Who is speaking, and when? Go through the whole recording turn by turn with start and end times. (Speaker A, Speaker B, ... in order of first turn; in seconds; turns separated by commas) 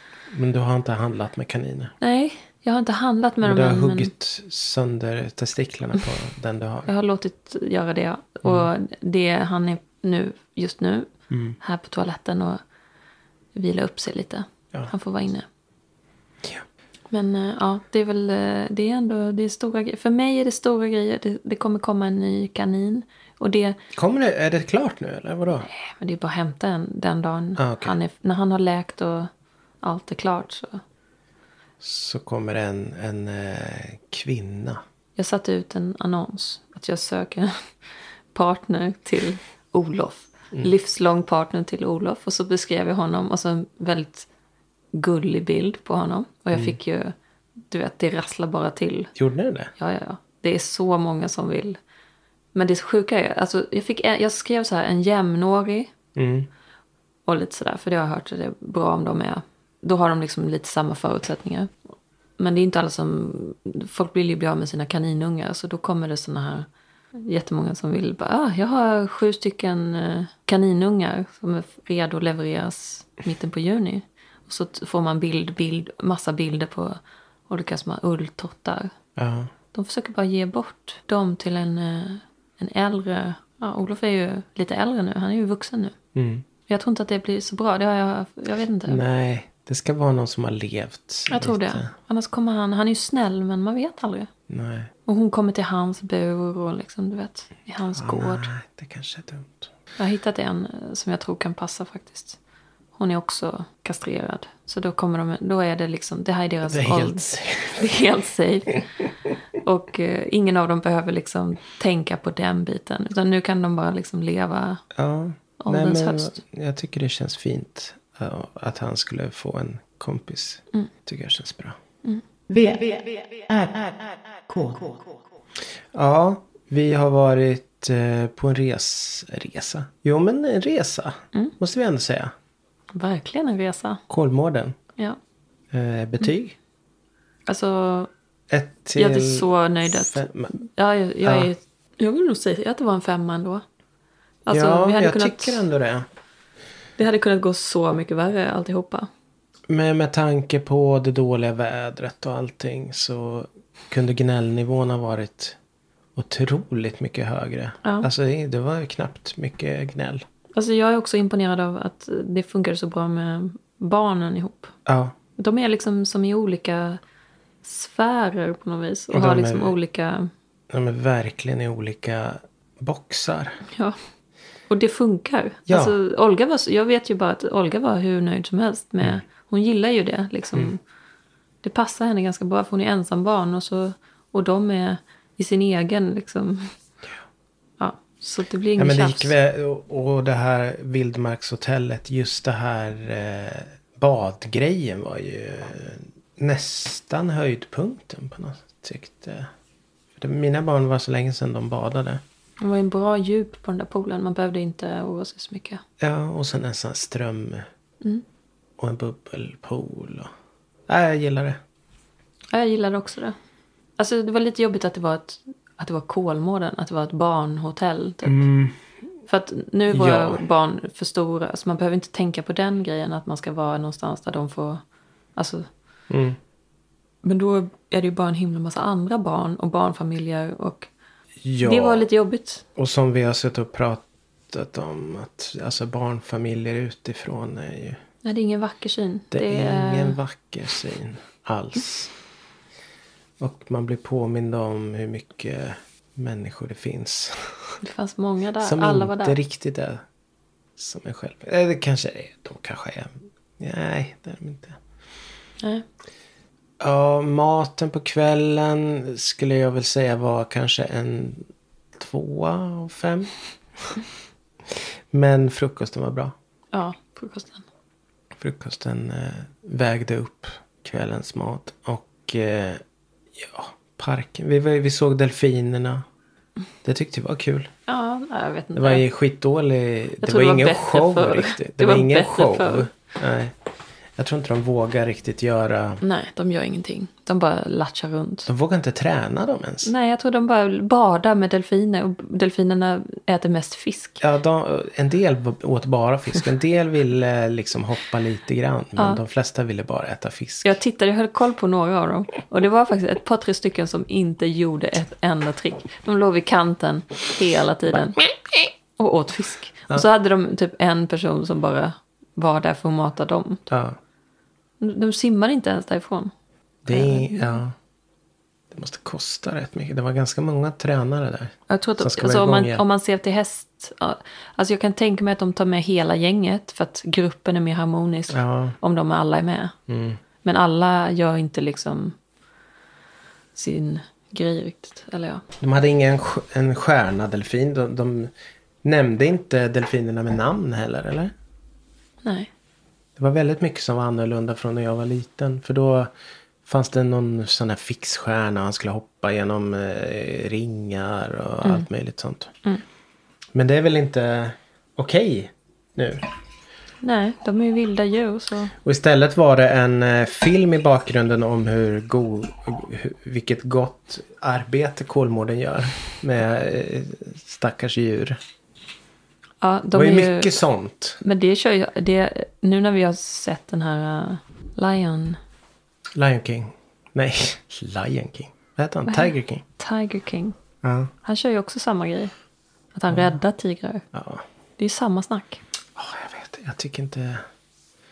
Speaker A: 0.3-1.9, Speaker B: 2.0-4.1, Speaker A: 3.4-6.9, Speaker B: 6.9-12.6, Speaker A: 11.3-11.6, Speaker B: 13.5-15.5, Speaker B: 17.1-23.8, Speaker A: 23.9-25.7, Speaker B: 25.6-29.3, Speaker A: 27.6-27.9, Speaker B: 29.8-30.8, Speaker A: 31.8-34.8, Speaker B: 35.1-37.7, Speaker B: 38.3-44.3, Speaker B: 44.9-47.1, Speaker B: 47.7-49.1, Speaker A: 49.1-49.7, Speaker B: 49.8-51.8, Speaker B: 52.5-55.9, Speaker A: 56.1-56.5, Speaker B: 57.3-61.7, Speaker B: 62.4-78.9, Speaker A: 79.2-79.5, Speaker B: 79.7-85.9, Speaker A: 86.1-86.4, Speaker B: 86.7-89.0, Speaker A: 88.9-91.9, Speaker B: 91.3-94.3, Speaker A: 94.5-94.9, Speaker B: 95.0-98.5, Speaker A: 98.0-99.7, Speaker B: 100.0-102.4, Speaker B: 103.0-108.8, Speaker A: 106.7-107.8, Speaker B: 109.5-114.8, Speaker A: 114.9-121.8, Speaker B: 115.6-116.4, Speaker C: 122.5-125.2, Speaker A: 125.9-132.3, Speaker B: 132.9-134.0, Speaker A: 134.1-134.8, Speaker A: 135.7-136.6, Speaker B: 137.5-138.1, Speaker A: 138.5-140.5, Speaker B: 139.0-143.6, Speaker A: 141.2-141.5, Speaker B: 144.4-145.6, Speaker A: 144.5-146.1, Speaker B: 147.0-149.1, Speaker A: 149.7-155.6, Speaker A: 156.2-160.2, Speaker B: 157.8-158.1, Speaker B: 160.6-164.7, Speaker A: 164.8-165.1, Speaker B: 165.4-167.0, Speaker B: 167.6-170.3, Speaker A: 169.1-169.7, Speaker A: 170.7-173.6, Speaker B: 173.7-174.0, Speaker B: 174.7-180.8, Speaker A: 175.7-175.9, Speaker B: 181.6-186.7, Speaker B: 187.8-189.3, Speaker A: 188.8-199.5, Speaker A: 200.2-202.2, Speaker B: 202.6-205.8, Speaker A: 206.0-207.7, Speaker A: 208.8-210.3, Speaker A: 210.9-211.6, Speaker B: 212.5-213.3, Speaker B: 214.0-218.5, Speaker A: 218.2-218.8, Speaker B: 219.3-224.8, Speaker A: 219.9-220.4, Speaker B: 225.3-225.7, Speaker A: 226.1-226.4, Speaker B: 227.2-230.9, Speaker A: 231.4-232.0, Speaker B: 231.6-232.6, Speaker A: 232.8-238.0, Speaker B: 238.2-240.2, Speaker A: 239.3-242.1, Speaker A: 243.4-247.8, Speaker B: 247.8-249.4, Speaker A: 248.6-250.0, Speaker A: 250.8-254.8, Speaker B: 255.6-255.8, Speaker A: 256.8-263.3, Speaker A: 264.7-266.3, Speaker B: 266.7-267.6, Speaker A: 268.4-272.8, Speaker A: 273.3-276.0, Speaker A: 276.8-277.7, Speaker B: 277.9-279.0, Speaker A: 278.7-283.5, Speaker B: 280.2-282.9, Speaker A: 284.1-286.0, Speaker B: 286.0-288.5, Speaker A: 288.5-289.9, Speaker B: 289.8-294.2, Speaker A: 294.2-300.7, Speaker B: 300.6-308.2, Speaker B: 308.9-313.7, Speaker A: 313.7-314.0, Speaker B: 314.8-316.3, Speaker A: 316.8-317.7, Speaker B: 316.9-317.6, Speaker A: 318.7-322.8, Speaker B: 321.7-329.8, Speaker A: 328.3-328.8, Speaker A: 329.9-330.2, Speaker B: 330.4-332.1, Speaker B: 333.5-335.4, Speaker A: 335.6-338.3, Speaker A: 338.8-341.3, Speaker B: 342.2-342.5, Speaker A: 343.2-346.1, Speaker A: 346.6-352.5, Speaker A: 353.5-356.3, Speaker B: 357.0-358.7, Speaker A: 358.8-368.4, Speaker B: 369.6-370.5, Speaker A: 369.9-371.2, Speaker B: 371.2-375.4, Speaker A: 376.1-379.6, Speaker B: 379.1-380.6, Speaker A: 380.8-381.1, Speaker B: 381.2-382.3, Speaker B: 382.9-384.0, Speaker A: 384.1-384.4, Speaker B: 384.8-385.6, Speaker A: 385.9-387.4